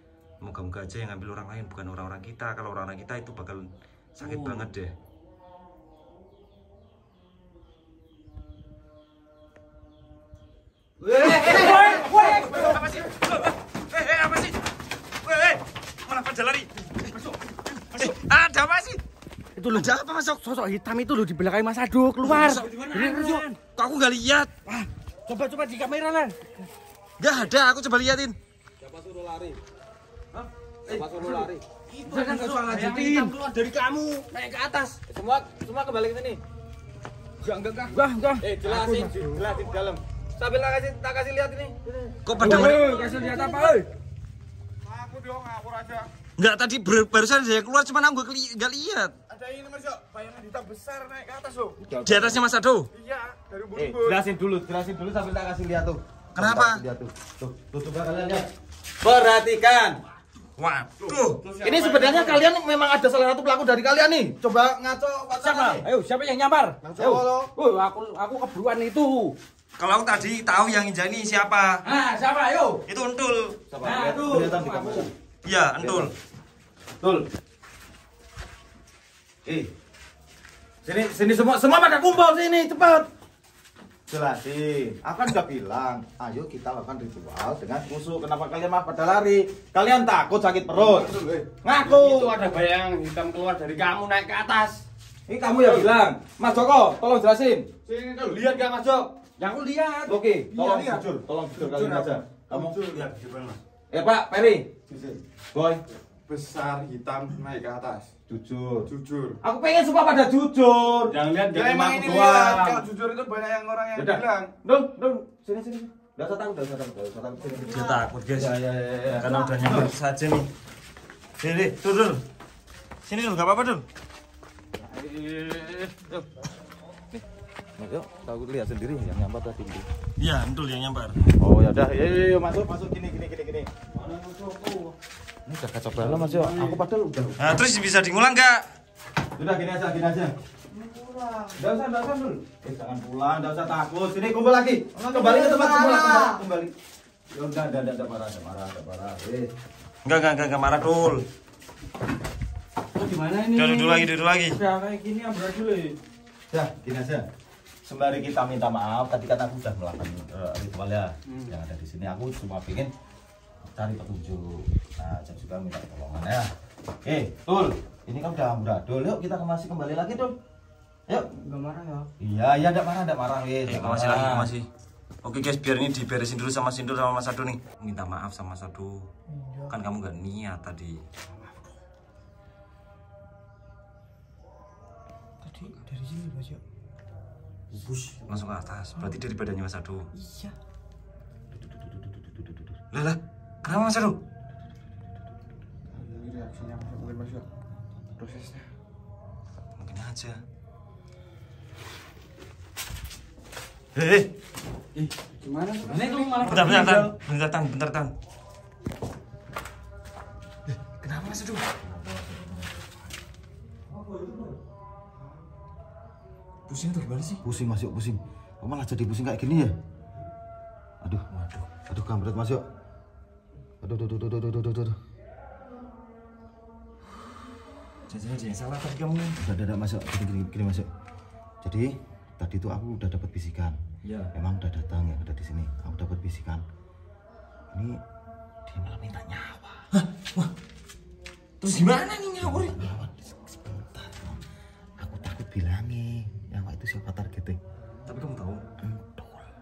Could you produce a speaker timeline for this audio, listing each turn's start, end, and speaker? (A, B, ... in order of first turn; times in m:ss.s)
0:00.4-0:04.9 A
0:04.2-0:04.6 B
0:11.0-0:12.4 C
0:11.1-0:12.8 B
0:11.2-0:14.6 A
0:15.2-0:17.2 A
0:17.9-0:19.0 A
0:19.6-0:23.6 B
0:19.7-0:20.2 A
0:22.4-0:23.4 C
0:23.8-0:24.5 A
0:24.7-0:26.6 B
0:27.2-0:28.4 A
0:28.8-0:29.6 C
0:30.9-0:34.2 C
0:32.0-0:33.4 B
0:34.3-0:35.0 B
0:35.1-0:36.4 C
0:37.9-0:38.5 B
0:38.4-0:43.0 C
0:42.2-0:42.8 A
0:42.4-0:43.9 B
0:42.7-0:43.3 D
0:44.8-0:46.1 D
0:46.4-0:49.2 A
0:49.3-0:51.8 D
0:51.8-0:52.4 C
0:52.0-0:52.9 A
0:52.9-0:54.2 D
0:53.8-0:58.5 C
0:56.4-0:56.8 A
0:59.0-1:00.0 C
1:00.6-1:01.4 A
1:01.2-1:02.4 D
1:01.6-1:05.8 C
1:05.4-1:06.8 B
1:06.8-1:07.5 D
1:07.0-1:07.3 C
1:07.6-1:09.4 B
1:09.8-1:11.8 A
1:11.8-1:12.8 B
1:12.9-1:13.6 A
1:13.7-1:15.1 C
1:13.8-1:15.1 B
1:15.4-1:16.1 A
1:15.8-1:16.1 C
1:17.0-1:17.3 C
1:20.8-1:23.1 C
1:24.1-1:32.4 C
1:30.7-1:34.8 D
1:35.3-1:37.7 C
1:35.6-1:35.9 D
1:37.8-1:39.1 D
1:39.4-1:40.2 B
1:40.1-1:42.8 C
1:40.5-1:43.1 D
1:43.9-1:44.8 C
1:44.9-1:45.2 D
1:45.5-1:45.8 C
1:46.3-1:48.1 D
1:48.3-1:48.9 C
1:48.9-1:49.4 D
1:49.4-1:52.9 C
1:51.3-1:54.5 D
1:51.3-1:51.7 B
1:53.9-1:59.9 C
1:57.6-1:58.6 A
1:59.1-2:00.5 A
2:01.4-2:02.2 A
2:03.0-2:03.8 A
2:04.8-2:06.3 C
2:07.8-2:09.9 C
2:10.2-2:11.2 A
2:11.4-2:14.9 C
2:15.5-2:17.6 C
2:17.4-2:18.6 A
2:19.4-2:20.4 C
2:20.7-2:21.5 E
2:21.5-2:26.7 C
2:25.0-2:26.4 E
2:27.3-2:29.5 C
2:30.0-2:31.2 A
2:33.0-2:36.0 B
2:33.6-2:34.6 A
2:36.5-2:37.3 C
2:37.8-2:42.9 C
2:43.8-2:46.5 C
2:47.0-2:50.4 C
2:51.4-2:52.1 E
2:52.2-2:54.5 C
2:53.7-2:54.7 A
2:55.2-2:59.1 A
2:59.3-2:59.7 E
2:59.7-3:01.0 A
3:05.4-3:06.6 E
3:07.8-3:08.1 B
3:08.3-3:10.1 A
3:10.1-3:10.6 E
3:12.2-3:12.6 C
3:12.9-3:14.2 A
3:15.9-3:17.5 D
3:18.2-3:18.7 D
3:19.8-3:20.4 A
3:24.0-3:24.3 A
3:25.0-3:26.9 D
3:25.8-3:27.1 B
3:26.4-3:28.1 A
3:30.7-3:31.6 A
3:31.8-3:32.9 C
3:36.7-3:37.4 A
3:37.4-3:39.8 C
3:41.0-3:42.6 C
3:41.3-3:41.7 A
3:43.8-3:45.0 C
3:48.1-3:49.4 A
3:49.4-3:50.9 C
3:51.6-3:53.8 C
3:54.3-3:56.6 C
3:57.7-3:58.0 C
3:58.7-3:59.8 C
3:59.9-4:00.5 A
4:01.6-4:02.8 A
4:02.4-4:04.4 C
4:05.0-4:07.6 C
4:08.1-4:08.6 A
4:08.8-4:09.5 C